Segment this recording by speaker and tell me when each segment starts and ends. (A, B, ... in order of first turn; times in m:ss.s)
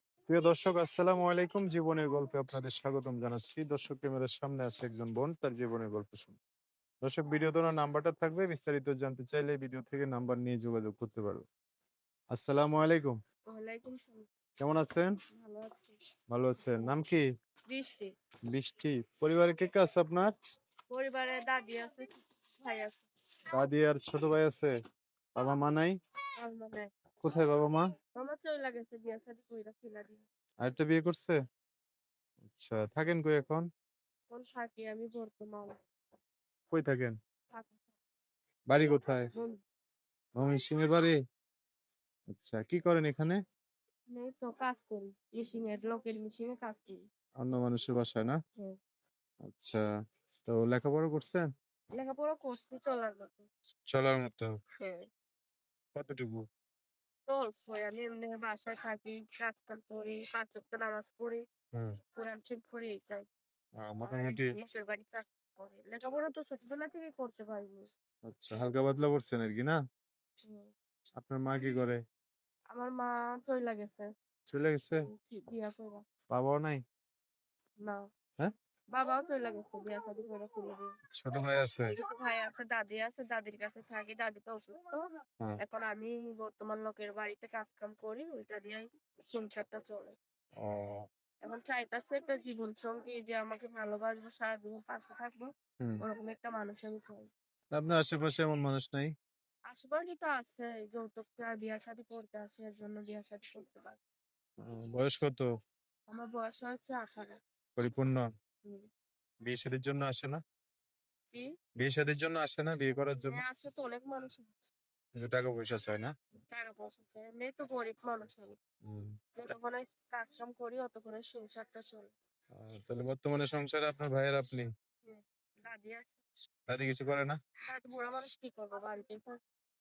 0:00.3-0:06.4 A
0:07.0-0:11.4 A
0:12.3-0:13.1 A
0:13.5-0:14.3 B
0:14.6-0:15.1 A
0:15.4-0:15.9 B
0:16.3-0:17.2 A
0:17.7-0:18.1 B
0:18.5-0:20.3 A
0:20.9-0:23.0 B
0:23.5-0:24.7 A
0:25.4-0:25.9 A
0:26.4-0:26.9 B
0:27.2-0:27.8 A
0:28.1-0:30.2 B
0:30.6-0:31.4 A
0:32.5-0:33.6 A
0:34.3-0:35.8 B
0:36.7-0:37.2 A
0:37.5-0:37.8 B
0:38.7-0:39.2 A
0:40.4-0:41.1 A
0:42.3-0:43.4 A
0:44.1-0:47.0 B
0:47.4-0:48.4 A
0:49.5-0:49.8 A
0:50.5-0:51.5 A
0:52.0-0:53.5 B
0:53.9-0:54.5 A
0:54.8-0:55.1 B
0:56.0-0:56.4 A
0:57.3-1:01.4 B
1:02.2-1:03.3 B
1:03.8-1:04.6 A
1:04.0-1:07.9 B
1:08.3-1:09.8 A
1:11.2-1:12.0 A
1:12.7-1:14.1 B
1:14.5-1:15.0 A
1:15.1-1:16.0 B
1:16.3-1:16.8 A
1:18.9-1:20.9 B
1:21.1-1:21.9 A
1:22.0-1:25.0 B
1:25.6-1:30.1 B
1:30.6-1:31.0 A
1:31.4-1:35.5 B
1:36.0-1:37.3 B
1:37.7-1:39.1 A
1:39.7-1:44.0 B
1:44.6-1:45.5 A
1:46.1-1:47.4 B
1:47.8-1:48.3 A
1:49.4-1:50.4 A
1:51.8-1:53.4 A
1:53.3-1:54.7 B
1:55.2-1:56.1 A
1:56.5-1:58.6 B
1:59.4-2:02.1 B
2:02.6-2:04.7 A
2:05.0-2:06.2 B
2:06.7-2:07.4 A
2:07.7-2:09.4 B